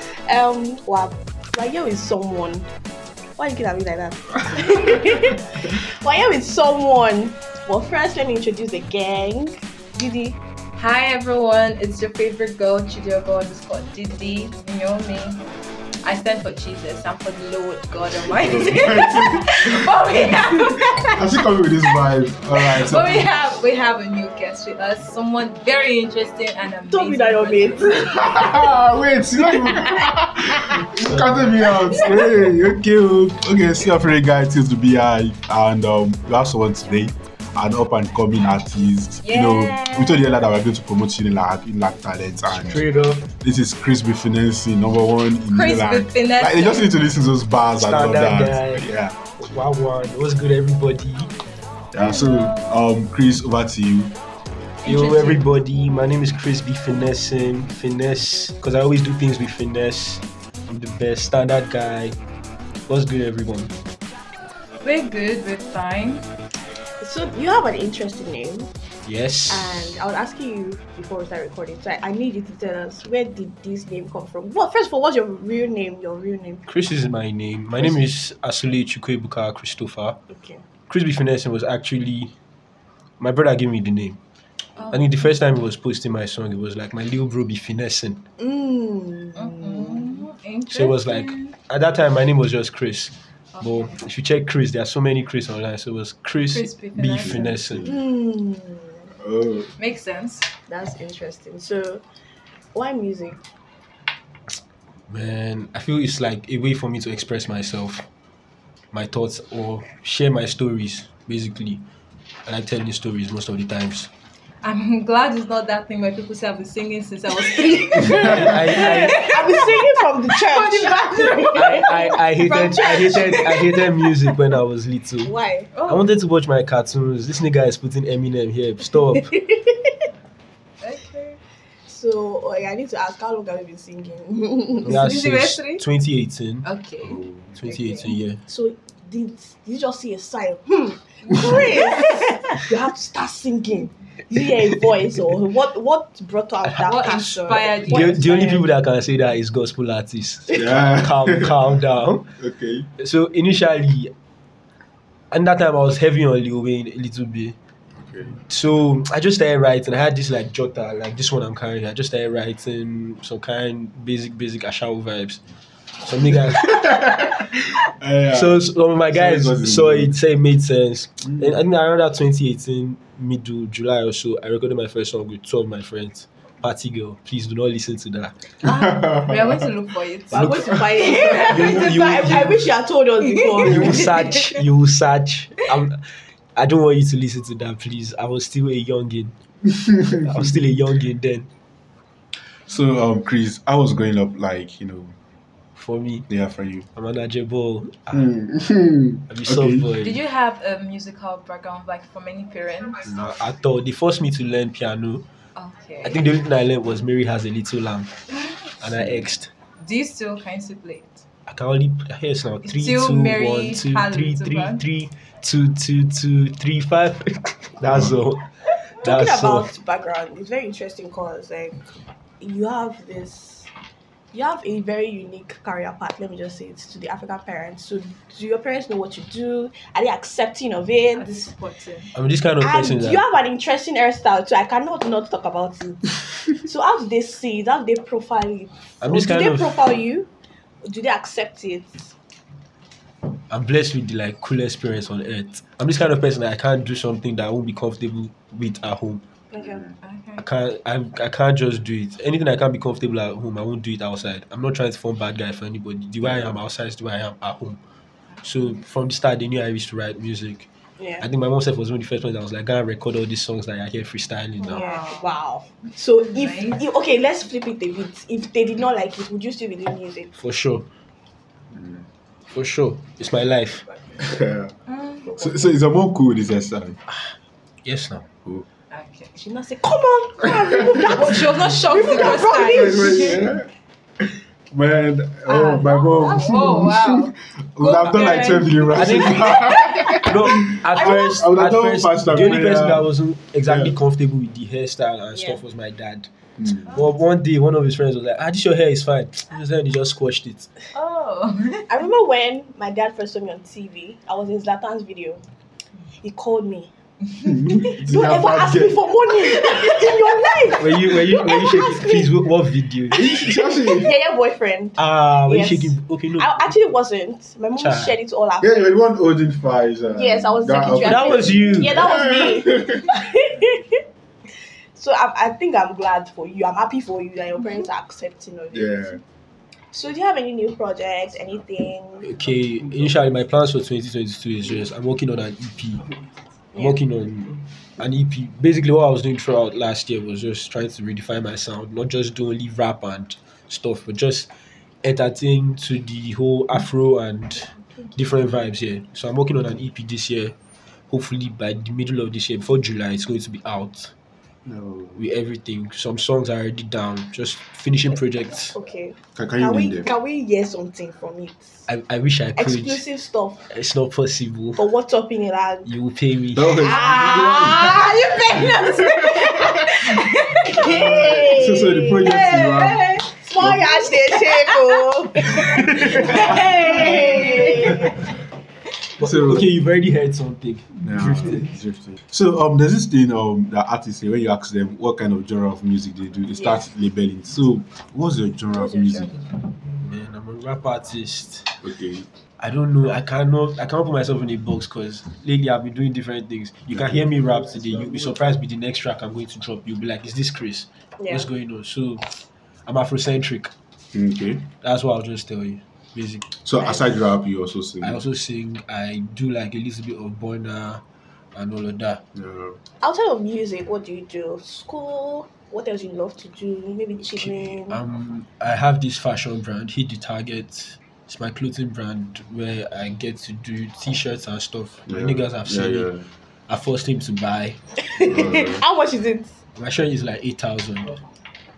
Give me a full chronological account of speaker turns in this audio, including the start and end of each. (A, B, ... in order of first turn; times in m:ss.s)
0:00.3-0:02.7 A
0:03.4-0:10.4 A
0:10.8-0:15.5 B
0:16.0-0:21.2 B
0:18.3-0:19.6 C
0:21.1-0:23.3 C
0:22.6-0:28.4 B
0:26.9-0:28.7 A
0:28.1-0:42.8 C
0:29.4-0:30.1 A
0:31.7-0:32.5 A
0:39.2-0:40.3 B
0:42.5-0:43.3 D
0:43.4-0:49.2 C
0:45.5-0:47.0 B
0:47.8-0:48.9 D
0:49.4-0:51.3 D
0:51.9-0:54.2 C
0:52.0-0:52.8 B
0:54.8-0:55.5 B
0:54.8-1:02.2 D
1:02.9-1:03.8 D
1:04.8-1:06.3 B
1:07.0-1:08.7 A
1:09.1-1:09.9 D
1:09.5-1:16.6 A
1:16.7-1:20.2 D
1:20.3-1:20.6 A
1:20.9-1:22.3 D
1:23.2-1:24.2 D
1:24.8-1:25.3 B
1:24.9-1:28.2 D
1:28.4-1:30.2 A
1:29.4-1:31.6 B
1:30.7-1:37.9 D
1:33.5-1:34.0 B
1:36.5-1:37.5 B
1:37.2-1:38.0 C
1:37.8-1:39.1 A
1:39.2-1:39.7 C
1:39.8-1:40.5 B
1:40.7-1:42.0 A
1:42.7-1:43.4 A
1:45.1-1:48.1 D
1:48.9-1:51.8 D
1:52.5-1:54.1 D
1:54.6-2:02.1 B
1:58.0-1:59.3 D
1:58.0-2:04.0 A
2:01.5-2:05.3 D
2:05.2-2:05.7 A
2:05.8-2:06.1 B
2:05.9-2:09.3 D
2:09.0-2:09.9 A
2:10.8-2:11.4 B
2:11.9-2:15.1 A
2:14.8-2:16.7 D
2:14.9-2:15.8 B
2:16.6-2:18.1 B
2:17.1-2:17.4 C
2:17.6-2:18.4 D
2:18.5-2:28.7 A
2:21.3-2:22.2 B
2:26.6-2:32.3 D
2:26.8-2:28.6 B
2:30.5-2:31.6 C
2:32.4-2:32.9 C
2:33.0-2:34.1 D
2:35.3-2:37.6 D
2:38.0-2:38.4 C
2:38.5-2:45.4 D
2:46.0-2:47.0 D
2:46.5-2:50.2 C
2:48.3-2:58.4 D
2:58.6-3:00.7 B
2:58.7-2:59.3 C
3:00.3-3:04.1 A
3:00.3-3:02.7 D
3:01.6-3:01.9 B
3:03.6-3:06.0 D
3:06.6-3:09.4 D
3:09.8-3:10.4 C
3:10.0-3:11.5 D
3:12.7-3:15.1 C
3:15.8-3:16.3 D
3:16.3-3:16.9 C
3:17.0-3:18.3 D
3:18.1-3:19.9 C
3:19.3-3:20.2 D
3:20.0-3:23.0 B
3:23.0-3:25.2 D
3:25.6-3:26.3 B
3:26.0-3:28.2 D
3:28.8-3:29.5 D
3:29.0-3:29.2 C
3:29.8-3:31.2 B
3:31.5-3:38.5 D
3:32.6-3:34.8 B
3:37.8-3:38.1 C
3:39.0-3:43.7 A
3:39.0-3:39.7 D
3:44.3-3:51.5 A
3:51.2-3:52.1 B
3:52.2-3:53.2 D
3:52.6-4:00.3 A
3:59.0-3:59.9 D
4:00.8-4:02.1 A
4:03.5-4:09.2 D
4:09.5-4:09.9 A
4:10.0-4:10.4 B
4:10.4-4:17.8 D
4:16.2-4:16.5 C
4:18.4-4:20.7 D
4:21.0-4:21.2 A
4:21.2-4:24.8 D
4:24.6-4:25.4 B
4:24.7-4:30.3 A
4:26.1-4:26.8 B
4:30.4-4:30.9 D
4:31.7-4:32.0 C
4:32.5-4:33.8 D
4:34.2-4:34.7 C
4:34.9-4:35.4 B
4:35.3-4:35.7 A
4:35.4-4:37.0 C
4:37.1-4:38.3 D
4:38.9-4:39.4 B
4:39.4-4:43.4 A
4:41.0-4:43.4 B
4:42.2-4:43.7 C
4:44.7-4:53.1 C
4:45.5-4:50.2 B
4:48.9-4:49.6 D
4:50.2-4:56.3 D
4:53.6-4:54.0 C
4:55.3-4:55.6 A
4:56.8-5:00.7 D
5:00.9-5:01.9 B
5:01.9-5:05.4 A
5:06.2-5:06.9 A
5:07.4-5:09.8 C
5:07.8-5:12.5 A
5:10.8-5:13.3 D
5:13.1-5:19.0 A
5:13.1-5:14.1 C
5:15.0-5:16.7 D
5:17.8-5:18.2 D
5:18.6-5:23.0 C
5:20.1-5:24.0 A
5:21.0-5:22.0 D
5:25.0-5:29.2 A
5:28.7-5:29.2 C
5:29.9-5:32.3 A
5:32.2-5:36.1 D
5:36.8-5:44.5 D
5:45.0-5:50.6 D
5:51.1-5:54.1 D
5:54.7-5:55.2 C
5:55.2-5:58.8 D
5:58.7-6:01.8 A
5:59.4-6:00.1 C
6:01.9-6:03.0 D
6:02.6-6:03.7 A
6:03.7-6:04.9 D
6:04.8-6:05.9 A
6:05.8-6:06.8 D
6:06.5-6:08.1 C
6:06.8-6:18.4 A
6:06.8-6:09.8 B
6:11.0-6:14.0 C
6:12.6-6:13.0 B
6:14.2-6:15.1 B
6:19.2-6:20.9 D
6:19.2-6:19.7 C
6:21.0-6:29.3 C
6:26.6-6:26.8 A
6:28.7-6:29.4 A
6:30.0-6:31.8 D
6:31.8-6:32.3 C
6:32.6-6:42.3 D
6:36.9-6:37.4 C
6:41.2-6:41.5 A
6:42.9-6:43.7 D
6:44.1-6:44.7 C
6:44.8-6:46.5 D
6:46.5-6:48.2 C
6:48.0-6:51.0 D
6:51.6-6:52.2 D
6:52.4-6:52.8 C
6:53.0-6:58.0 A
6:57.4-7:06.1 D
7:05.1-7:06.3 C
7:06.7-7:07.8 D
7:08.1-7:09.5 A
7:08.2-7:08.8 C
7:09.8-7:11.2 D